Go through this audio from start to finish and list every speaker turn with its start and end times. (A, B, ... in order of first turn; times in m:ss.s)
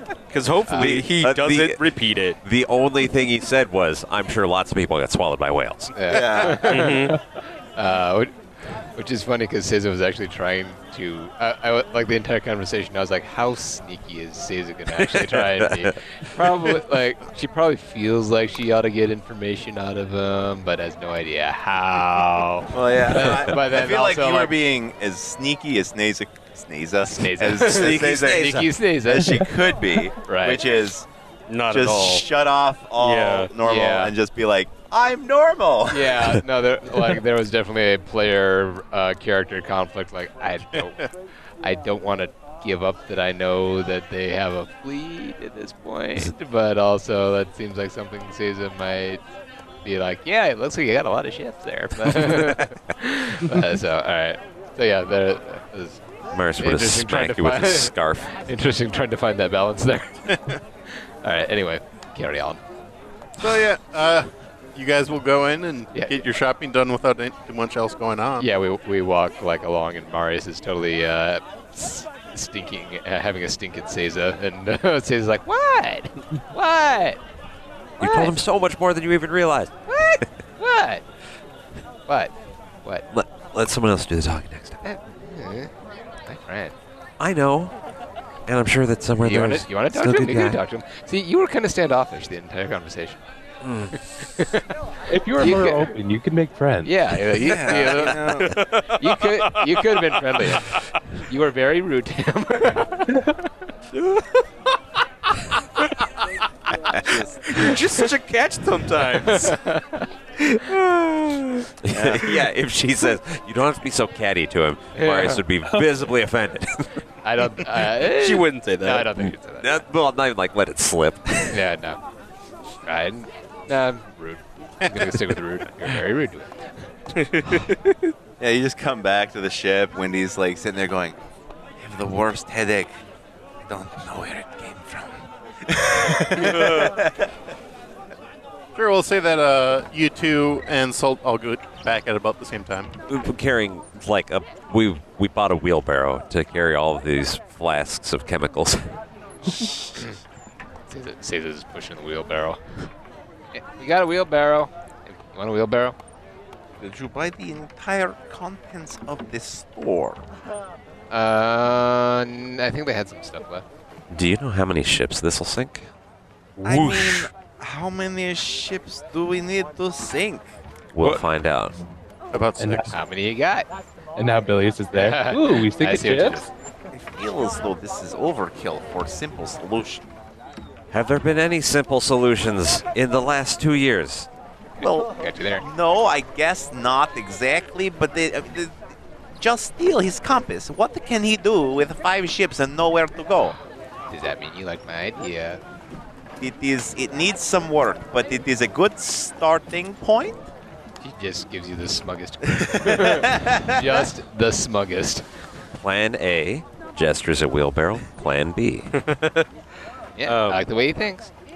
0:00.3-0:02.4 A
0:00.7-0:01.8 B
0:02.4-0:06.0 B
0:06.0-0:24.6 C
0:06.1-0:06.9 D
0:06.6-0:07.2 A
0:15.0-0:15.9 B
0:22.7-0:31.1 D
0:27.0-0:29.5 C
0:27.7-0:28.7 B
0:30.2-0:30.7 C
0:31.5-0:32.3 A
0:31.7-0:36.3 D
0:33.0-0:33.5 A
0:33.6-0:34.1 C
0:35.9-0:41.1 C
0:40.8-0:41.1 E
0:41.6-0:49.2 C
0:49.8-0:56.0 C
0:52.2-0:52.5 B
0:56.3-0:58.4 B
0:56.6-1:02.6 C
1:00.3-1:00.6 E
1:03.4-1:08.5 E
1:05.9-1:06.2 C
1:08.4-1:17.2 C
1:18.0-1:18.4 C
1:18.0-1:20.4 B
1:19.9-1:21.0 C
1:22.1-1:22.3 C
1:23.1-1:24.8 B
1:24.8-1:25.7 C
1:26.3-1:26.7 C
1:27.2-1:27.7 B
1:28.5-1:30.6 B
1:29.2-1:33.2 C
1:33.6-1:34.0 B
1:33.9-1:34.6 C
1:35.1-1:37.0 F
1:35.4-1:35.9 C
1:36.8-1:38.5 C
1:37.4-1:38.6 D
1:38.1-1:40.8 A
1:39.0-1:43.1 C
1:43.9-1:44.4 A
1:46.9-1:47.7 D
1:47.5-1:49.6 A
1:49.2-1:50.1 C
1:50.7-1:51.6 A
1:51.8-1:57.0 B
1:51.9-1:52.4 D
1:55.0-1:55.4 C
1:57.2-1:59.8 C
1:58.1-1:59.1 A
1:59.2-2:01.6 B
2:01.5-2:02.0 C
2:02.8-2:06.9 C
2:07.1-2:08.1 A
2:08.4-2:11.2 D
2:11.8-2:13.0 D
2:13.7-2:17.3 D
2:16.4-2:17.0 A
2:18.8-2:22.9 E
2:23.1-2:29.0 B
2:30.9-2:32.9 C
2:33.5-2:36.0 C
2:36.8-2:40.3 D
2:41.1-2:43.6 C
2:44.1-2:45.9 B
2:46.6-2:47.3 B
2:46.6-2:50.5 D
2:50.9-2:51.8 B
2:52.3-2:52.9 E
2:52.6-2:53.0 F
2:52.9-2:53.7 C
2:54.2-2:56.5 F
2:54.9-2:56.5 C
2:56.9-3:00.0 D
3:00.9-3:04.3 B
3:04.8-3:13.6 D
3:04.8-3:05.6 C
3:14.1-3:15.6 C
3:16.4-3:20.5 D
3:21.0-3:25.4 C
3:22.5-3:24.1 D
3:25.8-3:28.9 B
3:28.9-3:29.5 A
3:30.2-3:31.3 C
3:30.2-3:30.6 A